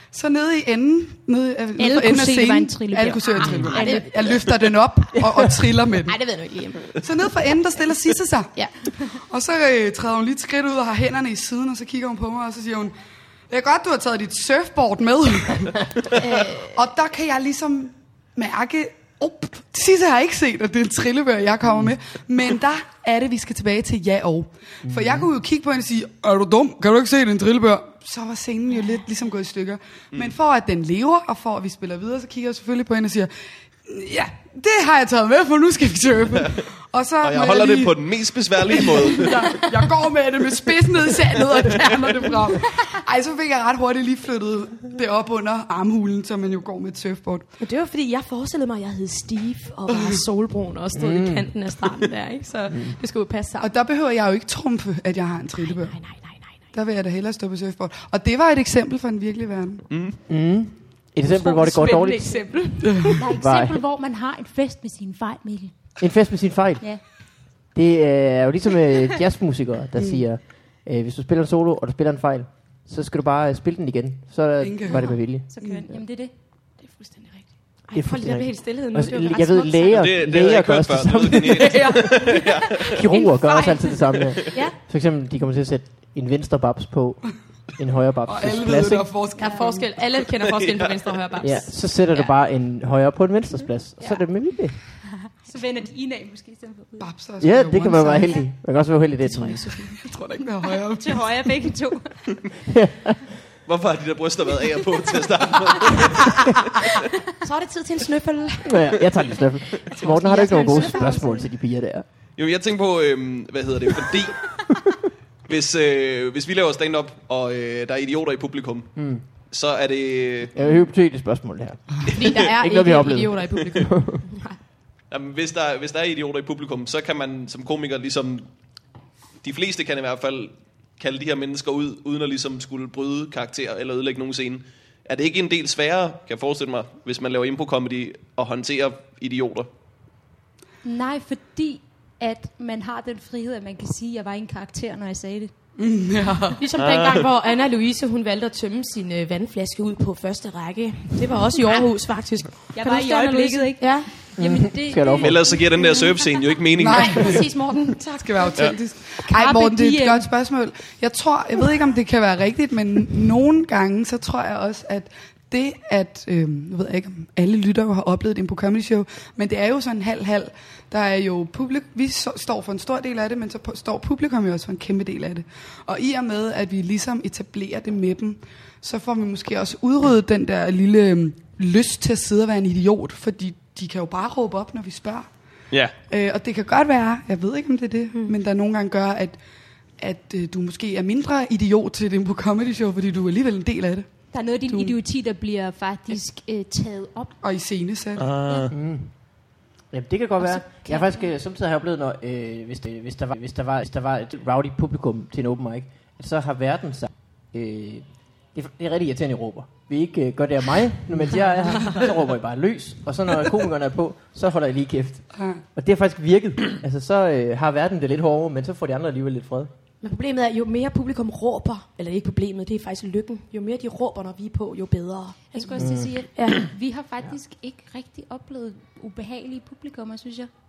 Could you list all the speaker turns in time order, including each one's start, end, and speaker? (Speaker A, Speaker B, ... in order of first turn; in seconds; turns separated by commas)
Speaker A: 0.1-6.2, Speaker B: 1.8-4.1, Speaker C: 3.5-4.6, Speaker C: 6.0-7.0, Speaker A: 6.9-12.9, Speaker C: 8.5-9.0, Speaker A: 13.5-33.3, Speaker C: 16.2-16.8, Speaker D: 24.8-25.3, Speaker A: 33.8-47.5, Speaker E: 37.2-39.6, Speaker C: 39.2-39.9, Speaker C: 41.6-42.8, Speaker C: 47.6-53.7, Speaker A: 49.9-50.1, Speaker D: 50.9-51.5, Speaker D: 52.7-53.0, Speaker A: 53.6-59.9, Speaker C: 55.5-56.7, Speaker E: 59.9-60.2, Speaker D: 60.3-62.6, Speaker C: 61.2-63.2, Speaker B: 63.2-66.1, Speaker D: 63.3-63.8, Speaker D: 66.0-75.5, Speaker A: 74.6-75.0, Speaker B: 74.9-76.3, Speaker A: 75.6-75.8, Speaker C: 76.8-80.1, Speaker D: 77.9-89.1, Speaker E: 79.9-82.9, Speaker C: 81.5-84.8, Speaker A: 88.2-89.9, Speaker C: 89.4-92.3, Speaker B: 89.4-89.7, Speaker E: 90.6-90.9, Speaker D: 91.4-94.8, Speaker B: 95.2-97.1, Speaker A: 97.0-98.4, Speaker D: 97.4-99.8, Speaker C: 99.2-100.1, Speaker A: 100.0-101.3, Speaker B: 100.7-102.3, Speaker D: 102.7-103.2, Speaker E: 103.6-106.9, Speaker C: 107.3-111.4, Speaker D: 108.6-112.0, Speaker B: 110.2-111.5, Speaker E: 112.3-114.7, Speaker E: 115.5-120.5, Speaker D: 119.0-119.2, Speaker D: 120.5-124.3, Speaker C: 122.1-124.6, Speaker E: 125.1-128.5, Speaker E: 129.4-139.7, Speaker B: 140.8-145.5, Speaker A: 145.8-146.6, Speaker C: 146.6-154.3, Speaker E: 146.8-147.2, Speaker B: 152.7-156.3, Speaker D: 154.3-155.6, Speaker E: 155.2-157.4, Speaker A: 156.8-185.3, Speaker C: 156.8-158.8, Speaker B: 159.3-160.3, Speaker A: 186.1-189.4, Speaker C: 188.1-188.4, Speaker A: 190.0-194.9, Speaker B: 194.3-197.4, Speaker A: 197.4-198.3, Speaker E: 198.2-198.7, Speaker B: 198.4-198.7, Speaker D: 198.7-219.7, Speaker B: 200.4-201.3, Speaker C: 220.0-226.6, Speaker B: 225.5-230.5, Speaker D: 225.8-226.3